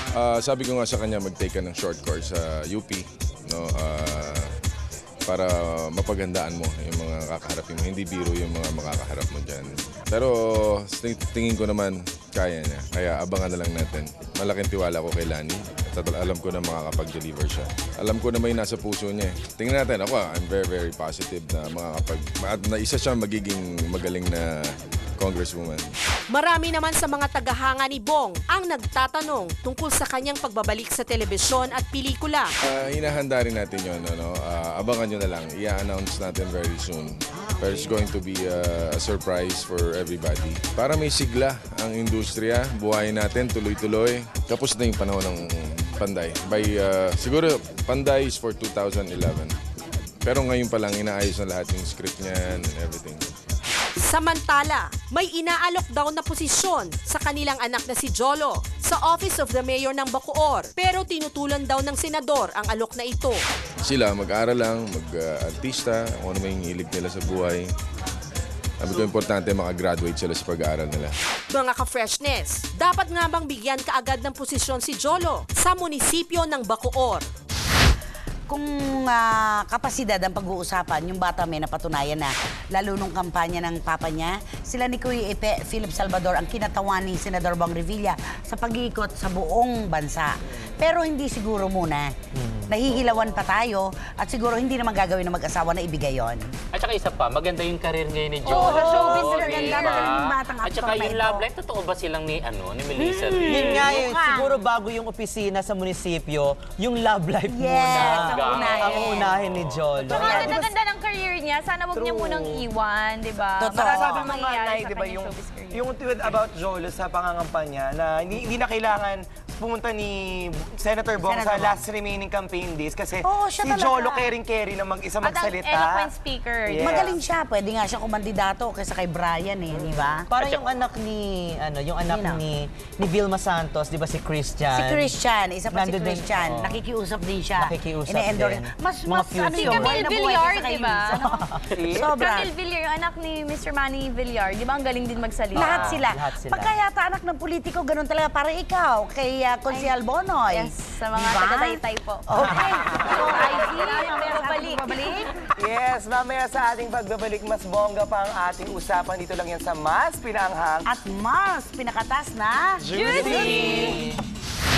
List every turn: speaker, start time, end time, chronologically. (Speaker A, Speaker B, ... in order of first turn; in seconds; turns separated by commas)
Speaker A: 0.1-4.5, Speaker A: 5.3-10.3, Speaker A: 10.9-24.5, Speaker A: 25.2-25.9, Speaker B: 26.3-32.5, Speaker A: 32.7-49.5, Speaker C: 37.4-37.9, Speaker A: 50.2-53.2, Speaker B: 54.0-63.4, Speaker A: 63.9-67.6, Speaker A: 68.8-71.1, Speaker B: 71.5-77.3, Speaker C: 78.5-92.1, Speaker D: 92.3-92.7, Speaker C: 92.7-96.5, Speaker E: 96.7-104.0, Speaker C: 98.5-101.5, Speaker F: 98.7-99.9, Speaker C: 103.0-104.5, Speaker D: 103.4-110.6, Speaker C: 107.5-109.5, Speaker E: 107.9-110.4, Speaker G: 110.0-110.7, Speaker C: 110.1-110.6, Speaker F: 110.1-115.9, Speaker G: 111.9-112.7, Speaker C: 113.6-114.4, Speaker G: 113.7-126.1, Speaker C: 121.2-121.8, Speaker C: 123.2-124.3, Speaker F: 125.2-127.1, Speaker G: 126.7-127.2, Speaker C: 126.8-130.3, Speaker D: 130.3-135.1, Speaker C: 132.1-132.4, Speaker C: 134.7-142.5, Speaker D: 135.7-136.8, Speaker D: 137.6-140.1, Speaker F: 139.5-145.8, Speaker C: 145.5-155.0, Speaker D: 145.6-146.7, Speaker F: 149.7-149.9, Speaker F: 150.5-155.3, Speaker G: 155.6-160.9, Speaker C: 160.9-163.8, Speaker G: 162.8-164.0, Speaker F: 162.9-164.0, Speaker D: 163.5-164.2